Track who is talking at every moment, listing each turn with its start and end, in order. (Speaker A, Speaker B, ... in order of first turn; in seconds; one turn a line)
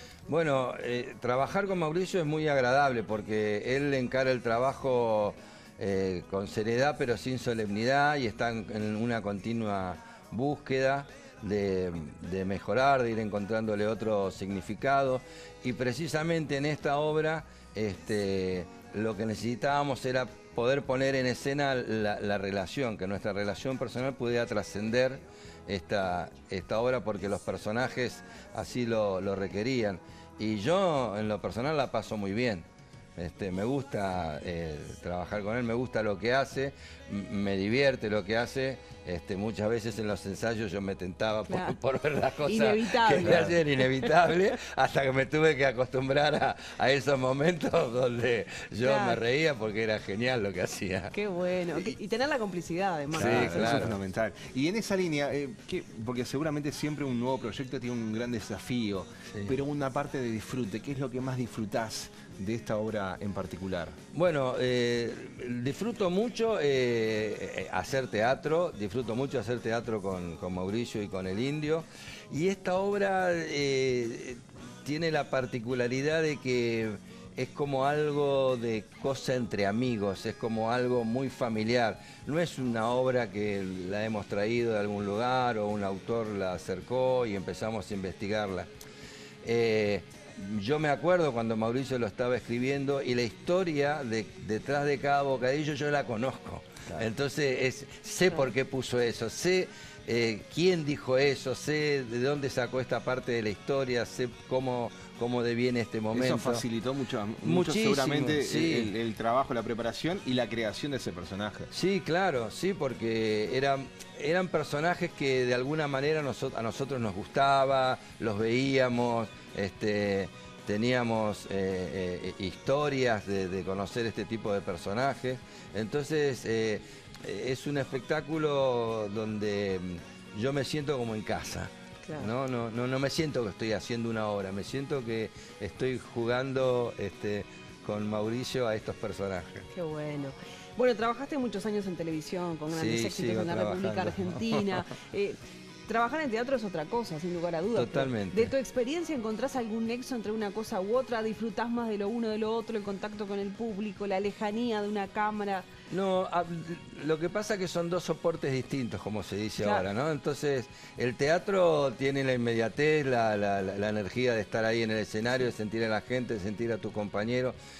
Speaker A: 0.3-32.6
Speaker A: 33.2-51.1
Speaker B: 41.5-41.8
Speaker B: 42.4-43.8
Speaker B: 48.8-49.2
Speaker B: 51.1-53.8
Speaker C: 53.1-63.9
Speaker A: 53.1-54.0
Speaker A: 64.1-88.7
Speaker A: 89.4-106.6
Speaker C: 106.1-111.7
Speaker A: 107.4-108.9
Speaker A: 111.7-139.7
Speaker B: 132.0-132.3
Speaker B: 139.7-155.7
Speaker A: 142.7-144.8
Speaker A: 147.7-148.5
Speaker A: 155.9-167.5
Speaker B: 159.6-159.9